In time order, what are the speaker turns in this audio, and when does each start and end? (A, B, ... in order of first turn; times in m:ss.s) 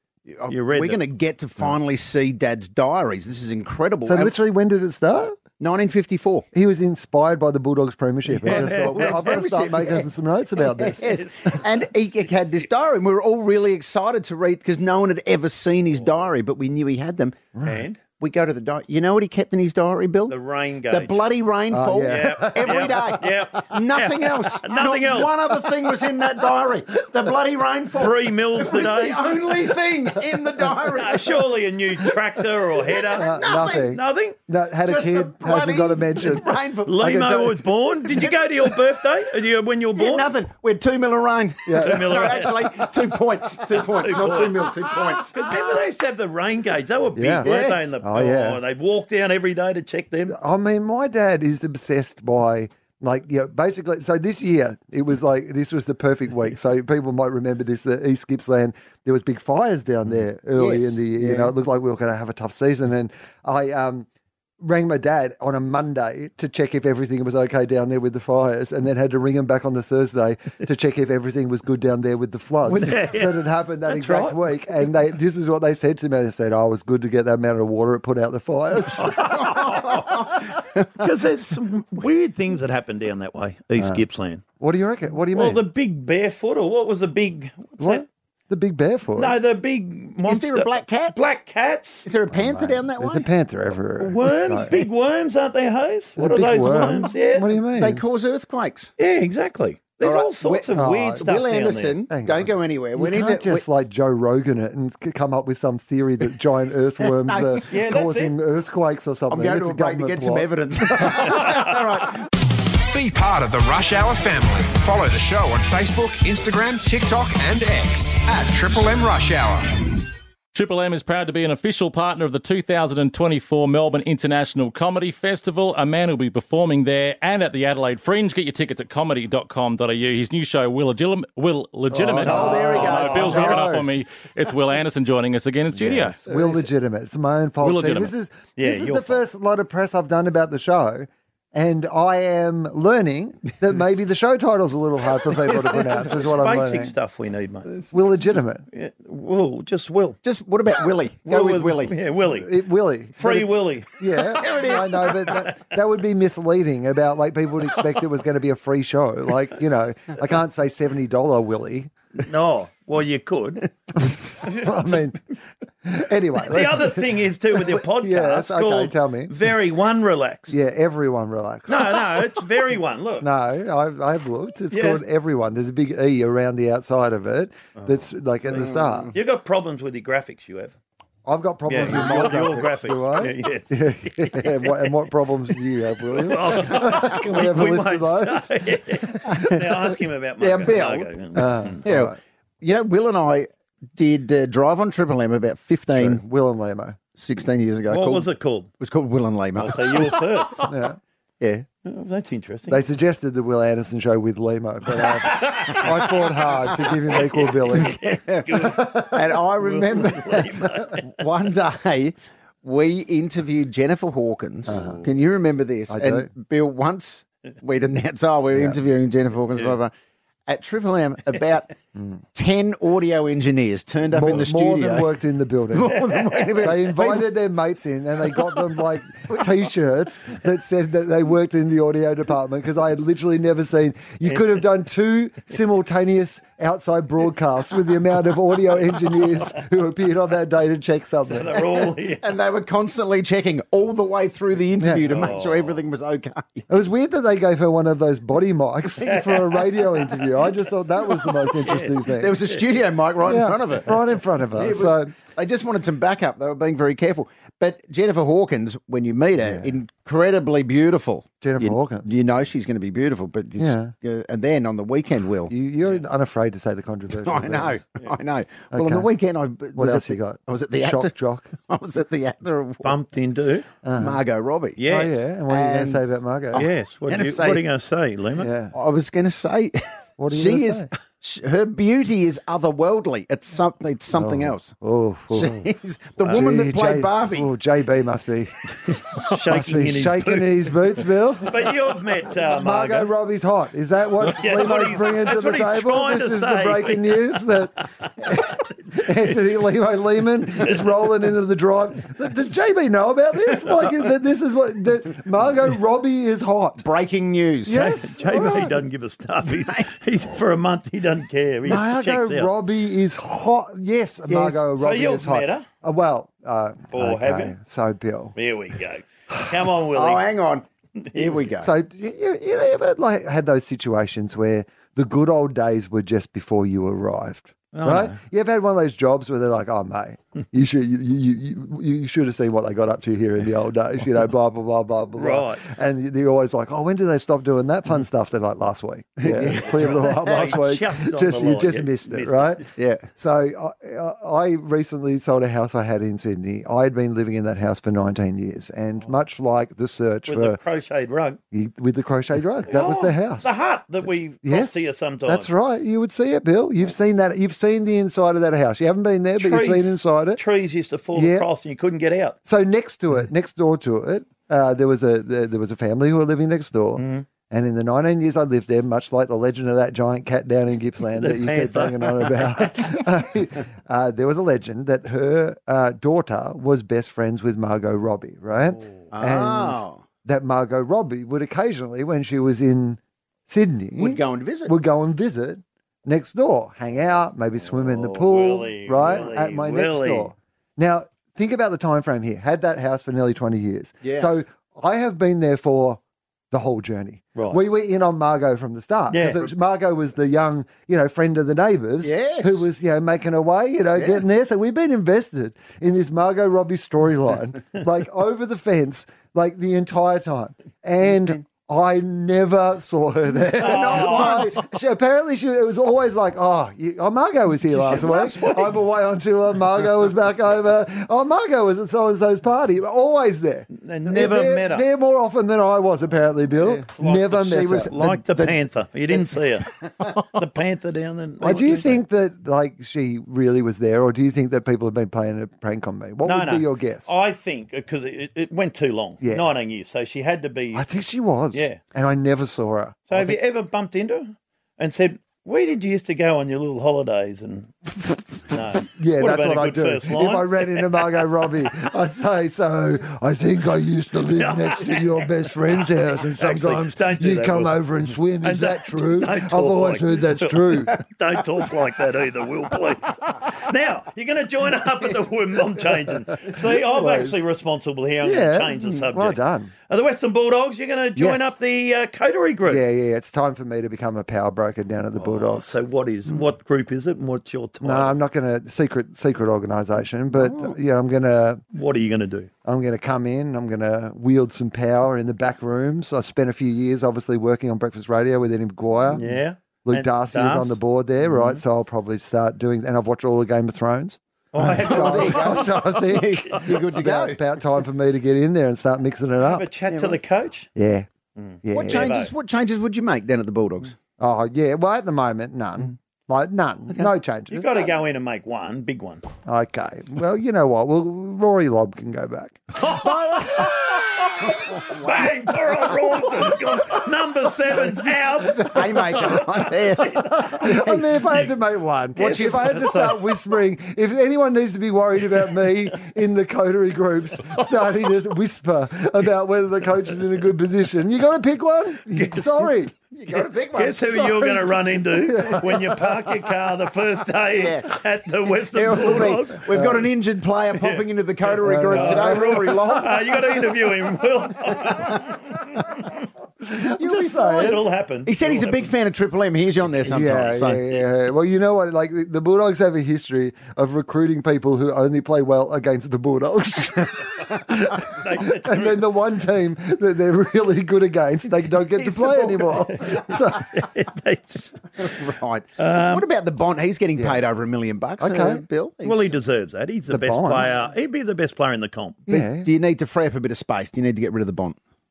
0:00.2-0:04.4 A
0:00.5-0:01.0 B
0:04.0-0:05.4 C
0:05.6-0:06.4 A
0:06.5-0:11.1 C
0:08.3-0:09.5 B
0:08.4-0:17.4 A
0:10.8-0:11.6 B
0:17.5-0:17.8 C
0:17.6-0:18.0 B
0:18.2-0:20.4 A
0:20.3-0:21.2 B
0:20.9-0:31.4 A
0:21.7-0:22.7 C
0:22.1-0:25.6 B
0:28.0-0:29.5 B
0:30.9-0:34.4 B
0:32.8-0:34.0 A
0:33.1-0:36.5 C
0:34.8-0:38.8 A
0:36.8-0:40.3 B
0:39.9-0:45.5 A
0:41.6-0:42.4 C
0:41.7-0:42.6 B
0:43.7-0:44.7 B
0:45.3-0:50.4 B
0:47.1-0:48.6 C
0:47.4-0:47.9 A
0:50.3-1:04.1 C
1:00.6-1:01.5 A
1:04.6-1:19.3 C
1:12.7-1:14.5 B
1:19.0-1:24.4 B
1:23.8-1:24.0 C
1:24.6-1:25.6 C
1:25.3-1:28.0 B
1:27.8-1:29.4 C
1:29.2-1:32.1 B
1:30.2-1:31.2 A
1:32.0-1:33.3 A
1:32.3-1:34.7 C
1:34.0-1:37.5 B
1:36.2-1:38.0 C
1:37.7-1:38.9 A
1:39.0-1:42.0 B
1:40.0-1:43.6 A
1:40.7-1:41.3 C
1:42.1-1:51.4 C
1:47.0-1:47.7 A
1:47.7-1:48.3 B
1:49.3-1:52.2 A
1:52.9-1:59.7 D
2:00.5-2:16.2 E
2:11.9-2:13.9 C
2:12.2-2:13.5 B
2:12.2-2:13.6 A
2:16.0-2:26.9 C
2:16.3-2:16.7 A
2:17.6-2:18.1 E
2:18.6-2:19.2 B
2:25.4-2:26.4 A
2:26.2-2:27.8 B
2:27.9-2:28.6 C
2:28.7-2:30.2 B
2:30.2-2:32.0 A
2:31.2-2:32.6 B
2:32.2-2:41.9 C
2:33.2-2:33.9 B
2:34.2-2:35.5 A
2:34.6-2:35.3 B
2:42.2-2:45.1 B
2:44.4-2:45.2 C
2:45.8-2:47.1 C
2:46.4-2:50.6 B
2:47.6-2:49.3 C
2:50.5-2:52.0 C
2:51.7-2:53.3 B
2:53.2-2:59.1 C
2:54.7-2:55.0 B
2:58.8-2:59.1 A
2:59.1-3:00.7 B
3:01.2-3:09.4 C
3:01.7-3:04.9 B
3:01.8-3:02.3 A
3:06.1-3:11.8 B
3:10.4-3:16.2 A
3:11.3-3:12.2 C
3:15.9-3:17.0 C
3:17.2-3:20.2 A
3:17.9-3:18.7 B
3:19.6-3:20.7 B
3:20.7-3:21.0 C
3:21.4-3:21.6 A
3:21.8-3:22.8 B
3:22.7-3:28.0 C
3:25.7-3:31.1 B
3:27.7-3:39.9 A
3:28.7-3:29.2 C
3:34.7-3:35.0 B
3:34.7-3:35.0 C
3:35.9-3:36.3 C
3:38.5-3:38.8 C
3:40.5-3:41.7 A
3:42.3-3:45.2 A
3:44.1-3:46.0 C
3:45.7-3:47.3 A
3:45.9-3:46.5 B
3:46.6-4:01.6 C
3:54.2-3:54.6 B
4:01.3-4:02.3 B
4:02.1-4:06.6 A
4:04.8-4:05.2 C
4:05.0-4:05.8 B
4:06.7-4:12.4 C
4:09.0-4:12.7 B
4:12.1-4:25.5 A
4:13.2-4:15.1 C
4:19.4-4:19.7 C
4:21.4-4:22.1 C
4:23.6-4:23.9 C
4:25.5-4:27.8 C
4:27.1-4:33.0 A
4:28.7-4:29.1 C
4:29.7-4:31.5 C
4:32.8-4:33.7 B
4:33.8-4:34.2 C
4:33.9-4:34.8 A
4:34.8-4:35.2 B
4:34.8-4:36.6 C
4:35.5-4:37.7 A
4:36.6-4:38.5 B
4:38.4-4:38.7 C
4:38.7-4:44.7 A
4:40.2-4:40.9 C
4:44.1-4:45.7 C
4:45.3-4:47.5 A
4:46.2-4:51.7 C
4:48.9-4:53.1 B
4:52.4-5:06.8 C
4:54.3-4:57.4 B
5:00.6-5:00.9 B
5:06.8-5:07.9 A
5:07.6-5:08.7 C
5:07.7-5:12.5 B
5:11.6-5:18.4 C
5:14.3-5:14.6 A
5:14.8-5:15.6 B
5:16.9-5:17.5 B
5:18.4-5:20.3 B
5:19.9-5:21.7 A
5:21.6-5:42.6 C
5:27.7-5:28.1 B
5:35.2-5:35.6 B
5:39.2-5:40.5 A
5:39.6-5:42.7 B
5:42.8-5:43.1 A
5:43.2-5:50.6 C
5:50.3-5:51.4 B
5:51.5-5:53.5 C
5:52.7-5:55.5 B
5:54.4-6:00.4 C
5:59.4-6:02.4 B
6:01.1-6:01.5 C
6:02.4-6:36.0 C
6:07.0-6:07.3 B
6:11.1-6:12.9 B
6:19.1-6:20.0 A
6:24.0-6:24.7 A
6:27.6-6:30.3 B
6:34.0-6:34.3 A
6:36.5-7:08.6 C
6:39.1-6:39.5 B
6:42.0-6:42.6 A
6:53.6-6:54.6 A
6:53.6-6:54.5 B
6:57.7-6:58.8 B
7:03.8-7:04.9 B
7:06.9-7:12.0 B
7:07.4-7:08.0 A
7:11.4-7:17.1 C
7:11.4-7:11.9 A
7:16.2-7:20.9 B
7:19.2-7:19.5 C
7:20.7-7:23.4 C
7:21.5-7:21.8 B
7:23.1-7:31.1 B
7:28.9-7:41.0 C
7:34.3-7:35.3 B
7:35.9-7:37.8 B
7:38.4-7:52.8 B
7:46.6-7:47.4 C
7:48.2-7:49.7 C
7:51.2-7:51.5 C
7:52.6-7:55.8 C
7:55.1-7:58.2 B
7:57.8-8:01.6 C
8:01.7-8:02.5 B
8:02.6-8:09.3 C
8:09.1-8:11.6 B
8:09.8-8:19.7 C
8:14.5-8:16.8 B
8:14.6-8:17.4 A
8:19.4-8:20.7 B
8:19.9-8:20.2 A
8:20.8-8:21.1 C
8:21.4-8:22.3 B
8:21.6-8:22.2 C
8:21.7-8:24.0 A
8:24.2-8:27.8 C
8:27.5-8:29.2 B
8:29.4-8:33.7 C
8:32.8-8:40.9 B
8:38.4-8:40.8 A
8:40.3-8:52.9 C
8:42.2-8:43.4 B
8:52.1-8:52.6 B
8:53.1-8:54.2 A
8:53.3-8:59.9 B
8:54.0-8:56.2 C
8:57.5-8:58.0 A
8:58.7-9:03.3 A
8:59.7-9:00.1 C
9:00.7-9:06.0 B
9:01.6-9:03.0 C
9:06.6-9:07.8 C
9:06.9-9:11.0 A
9:07.6-9:08.9 B
9:10.0-9:23.6 C
9:18.1-9:19.1 B
9:22.0-9:22.8 A
9:23.1-9:25.2 B
9:25.0-9:29.3 A
9:25.8-9:26.2 B
9:28.2-9:28.6 C
9:29.0-9:32.2 B
9:30.1-9:30.7 C
9:32.3-9:32.7 C
9:32.3-9:34.8 A